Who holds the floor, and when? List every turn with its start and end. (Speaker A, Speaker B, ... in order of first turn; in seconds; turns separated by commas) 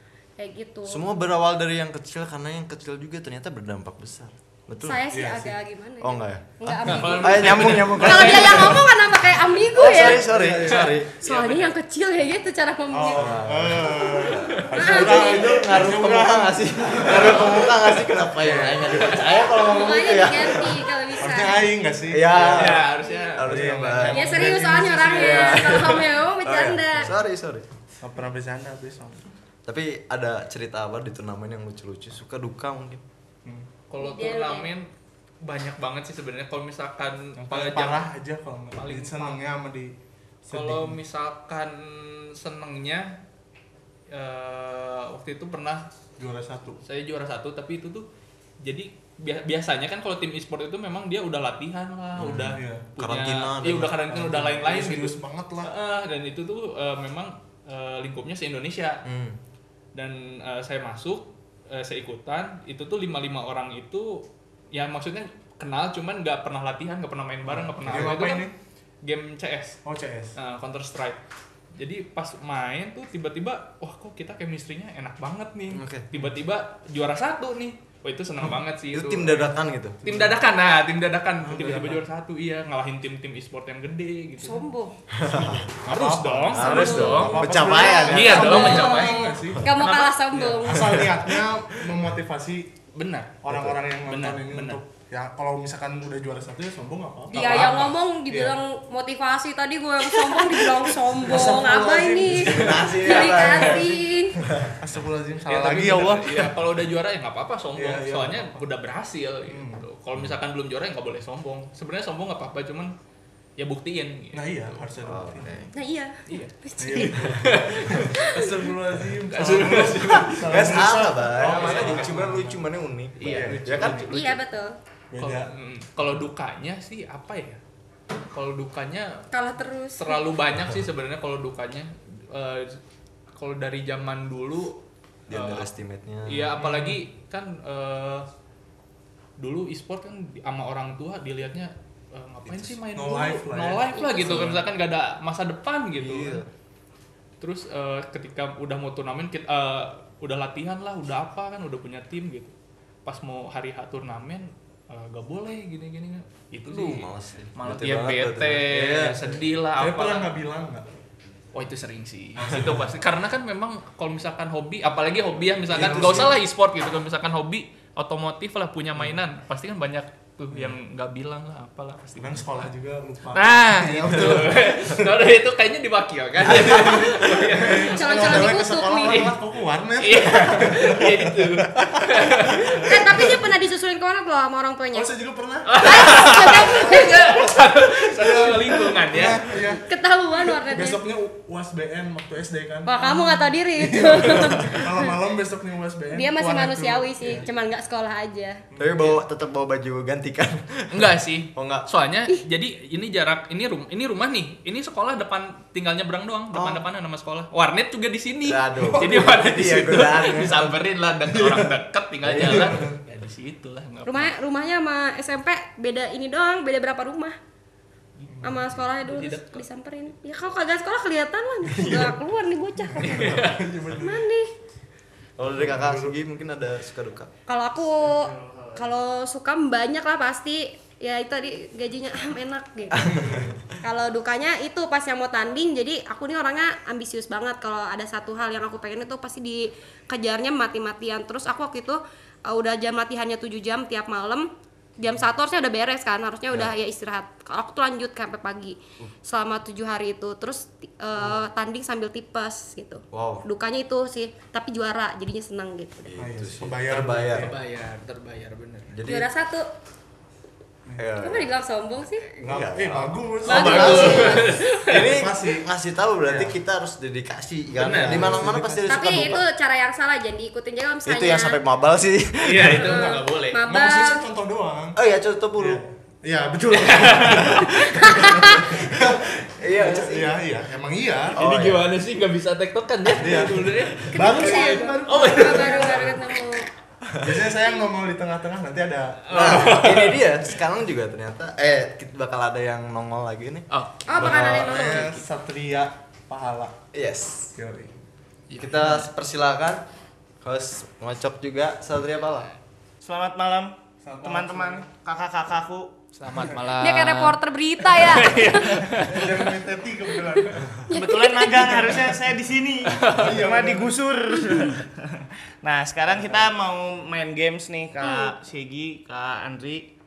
Speaker A: 0.4-1.0, Speaker B: 0.8-5.0, Speaker A: 4.8-10.3, Speaker C: 5.1-5.6, Speaker B: 6.0-8.8, Speaker D: 6.8-8.8, Speaker C: 7.2-8.8, Speaker B: 9.7-11.1, Speaker C: 9.9-11.0, Speaker D: 10.6-11.7, Speaker A: 11.2-15.6, Speaker C: 12.9-19.1, Speaker B: 13.1-14.2, Speaker D: 14.3-14.6, Speaker B: 14.8-20.9, Speaker A: 19.4-21.7, Speaker C: 21.2-22.9, Speaker B: 22.1-24.5, Speaker D: 22.4-24.5, Speaker C: 23.4-25.6, Speaker A: 24.1-27.2, Speaker B: 25.1-27.7, Speaker C: 28.0-29.2, Speaker B: 29.6-33.0, Speaker D: 33.9-34.9, Speaker A: 34.0-34.7, Speaker D: 35.4-38.0, Speaker C: 37.4-39.9, Speaker D: 38.7-39.4, Speaker C: 40.5-41.0, Speaker D: 40.5-43.2, Speaker D: 44.1-45.9, Speaker C: 46.2-46.8, Speaker D: 46.8-48.1, Speaker D: 48.6-59.0, Speaker B: 52.2-54.0, Speaker C: 52.2-52.8, Speaker C: 54.1-55.7, Speaker B: 59.0-59.4, Speaker D: 59.9-68.5, Speaker C: 67.5-68.5, Speaker D: 69.0-69.8, Speaker C: 69.8-70.3, Speaker D: 70.3-71.2, Speaker D: 71.8-79.5, Speaker B: 75.7-76.0, Speaker B: 78.9-80.0, Speaker C: 80.0-80.3, Speaker D: 80.0-84.6, Speaker C: 81.4-82.0, Speaker A: 84.4-85.0, Speaker B: 85.1-85.7, Speaker C: 85.3-89.8, Speaker D: 85.9-87.5, Speaker B: 86.5-89.0, Speaker A: 86.6-91.0, Speaker D: 88.1-90.2, Speaker C: 90.3-92.7, Speaker B: 90.8-91.9, Speaker D: 92.9-93.4, Speaker C: 93.4-98.5, Speaker B: 93.5-93.8, Speaker D: 94.0-94.8, Speaker A: 97.3-104.4, Speaker D: 97.3-97.9, Speaker B: 101.2-104.8, Speaker C: 101.2-103.8, Speaker C: 104.8-106.5, Speaker D: 105.5-113.0, Speaker C: 107.8-108.6, Speaker C: 109.5-109.8, Speaker D: 113.6-114.8, Speaker C: 114.3-115.6, Speaker B: 115.0-115.7, Speaker A: 115.7-117.3, Speaker D: 116.3-118.1, Speaker C: 116.8-122.6, Speaker A: 118.0-118.6, Speaker D: 119.3-122.3, Speaker B: 120.3-124.4, Speaker D: 123.2-124.1, Speaker C: 123.2-124.1, Speaker A: 124.1-124.7, Speaker C: 125.1-125.5, Speaker D: 125.2-127.6, Speaker D: 128.3-129.3, Speaker A: 129.3-130.2, Speaker D: 129.9-132.8, Speaker D: 133.3-135.7, Speaker B: 135.3-136.6, Speaker D: 136.2-138.3, Speaker C: 136.6-137.0, Speaker D: 139.4-146.4, Speaker C: 142.9-144.7, Speaker A: 143.9-144.5, Speaker B: 145.9-146.5, Speaker D: 147.4-152.5, Speaker D: 153.0-160.3, Speaker B: 156.7-159.4, Speaker C: 159.8-160.8, Speaker D: 161.5-172.7, Speaker C: 162.4-162.9, Speaker C: 165.7-166.4, Speaker C: 172.2-175.0, Speaker D: 173.3-178.3, Speaker C: 176.4-183.5, Speaker A: 177.8-179.4, Speaker D: 180.0-182.9, Speaker A: 182.8-185.1, Speaker C: 184.9-186.1, Speaker D: 185.7-189.5, Speaker A: 185.8-187.6, Speaker C: 187.4-189.8, Speaker A: 189.9-191.0, Speaker C: 190.4-197.4, Speaker A: 192.8-195.1, Speaker A: 196.1-198.6, Speaker C: 198.7-199.2, Speaker B: 198.8-201.9, Speaker D: 200.9-214.3, Speaker B: 206.5-206.8, Speaker B: 208.4-210.8, Speaker C: 208.8-209.4, Speaker C: 211.4-211.7, Speaker B: 212.2-212.8, Speaker C: 212.3-213.0, Speaker A: 214.1-217.4, Speaker C: 218.3-218.6, Speaker A: 218.4-224.5, Speaker D: 219.0-219.6, Speaker C: 221.7-222.2, Speaker C: 222.9-224.2, Speaker D: 223.0-223.6, Speaker B: 225.4-227.3, Speaker C: 225.4-226.2, Speaker A: 227.5-233.2, Speaker E: 228.0-228.9, Speaker B: 232.9-233.6, Speaker C: 233.2-233.5, Speaker A: 233.8-256.1, Speaker B: 253.1-253.4, Speaker B: 256.1-257.5, Speaker C: 256.2-257.5, Speaker D: 257.3-258.9, Speaker B: 258.9-259.3, Speaker A: 259.0-259.7, Speaker B: 260.9-261.5, Speaker A: 261.2-262.3, Speaker B: 262.3-269.4, Speaker C: 262.4-265.6, Speaker A: 263.5-264.5, Speaker D: 263.5-265.2, Speaker C: 266.2-266.6, Speaker D: 267.8-268.5, Speaker C: 267.9-269.4, Speaker A: 268.9-271.6, Speaker B: 271.0-273.0, Speaker D: 272.4-273.6, Speaker C: 272.8-275.0, Speaker A: 272.8-274.3, Speaker B: 274.9-275.8, Speaker C: 275.6-281.4, Speaker D: 276.7-278.2, Speaker A: 278.0-278.8, Speaker B: 278.7-280.4, Speaker B: 281.3-281.9, Speaker D: 281.3-286.1, Speaker C: 283.2-286.2, Speaker A: 284.1-286.7, Speaker B: 287.1-287.4, Speaker C: 287.2-289.8, Speaker D: 289.3-290.3, Speaker B: 289.3-295.1, Speaker D: 293.7-295.1, Speaker A: 294.1-295.2, Speaker C: 294.2-296.8, Speaker B: 296.9-297.5, Speaker C: 297.6-297.9, Speaker D: 298.5-299.1, Speaker B: 298.6-299.8, Speaker B: 300.4-302.5, Speaker E: 303.0-305.9, Speaker C: 304.0-304.8, Speaker D: 306.1-309.6, Speaker A: 306.8-309.1, Speaker C: 309.0-310.8, Speaker A: 310.9-312.0, Speaker E: 310.9-319.9, Speaker D: 312.9-313.4, Speaker C: 313.1-314.0, Speaker A: 318.0-318.3